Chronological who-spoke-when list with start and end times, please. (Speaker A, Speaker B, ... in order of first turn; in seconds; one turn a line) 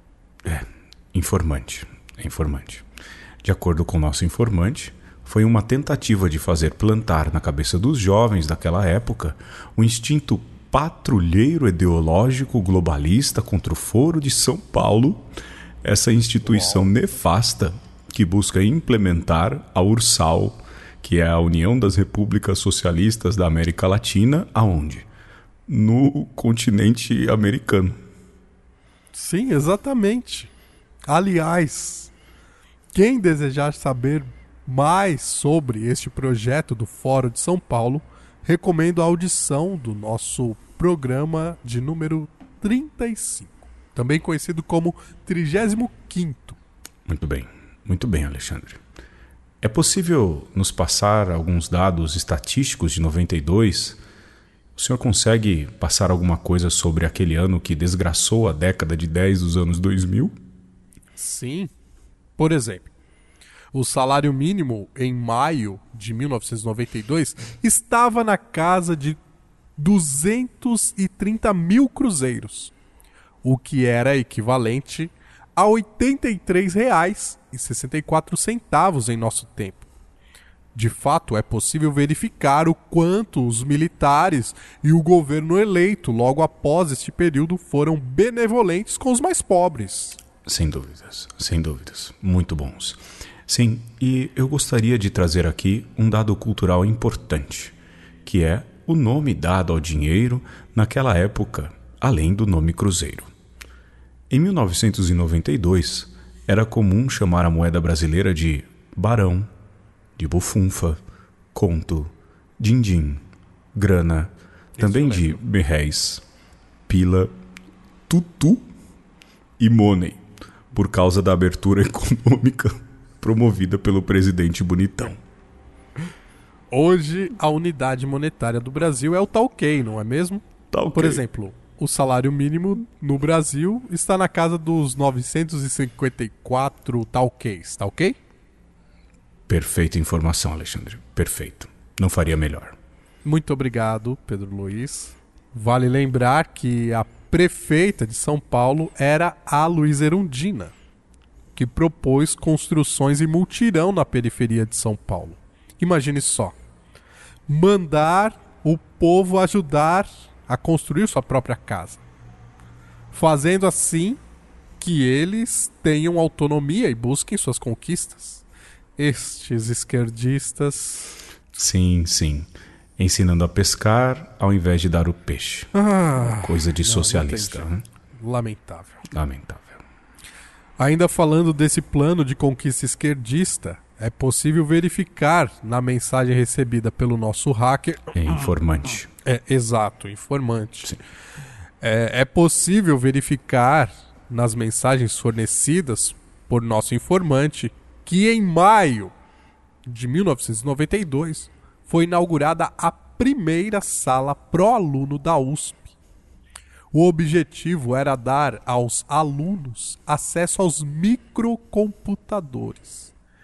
Speaker A: 0.4-2.9
Speaker A: 3.4-15.3
Speaker A: 15.8-25.1
Speaker B: 16.4-16.9
Speaker A: 25.7-28.0
Speaker B: 29.1-30.5
Speaker B: 31.1-32.1
Speaker B: 32.9-46.6
Speaker A: 47.1-48.8
Speaker A: 49.6-54.0
Speaker A: 54.8-60.4
Speaker B: 61.2-61.7
Speaker B: 62.4-62.9
Speaker B: 63.7-69.2
Speaker B: 69.8-72.7
Speaker B: 73.4-79.9
Speaker B: 80.8-90.2
Speaker A: 90.5-103.3
Speaker A: 104.3-109.5
Speaker A: 110.2-111.0
Speaker A: 111.5-116.2
Speaker B: 114.8-115.4
Speaker A: 116.9-117.3
Speaker A: 118.1-118.7
Speaker A: 119.6-125.2
Speaker B: 126.7-138.2
Speaker A: 130.7-131.2
Speaker A: 139.5-142.8
Speaker B: 143.2-150.7
Speaker B: 151.6-156.6
Speaker B: 157.5-162.0
Speaker B: 163.1-164.2
Speaker B: 164.8-168.4
Speaker B: 169.0-171.2
Speaker A: 171.5-177.8
Speaker B: 175.7-179.0
Speaker A: 179.1-179.8
Speaker B: 180.8-188.1
Speaker A: 188.1-189.1
Speaker B: 189.2-191.0
Speaker B: 191.8-199.1
Speaker B: 199.9-205.9
Speaker B: 206.9-213.1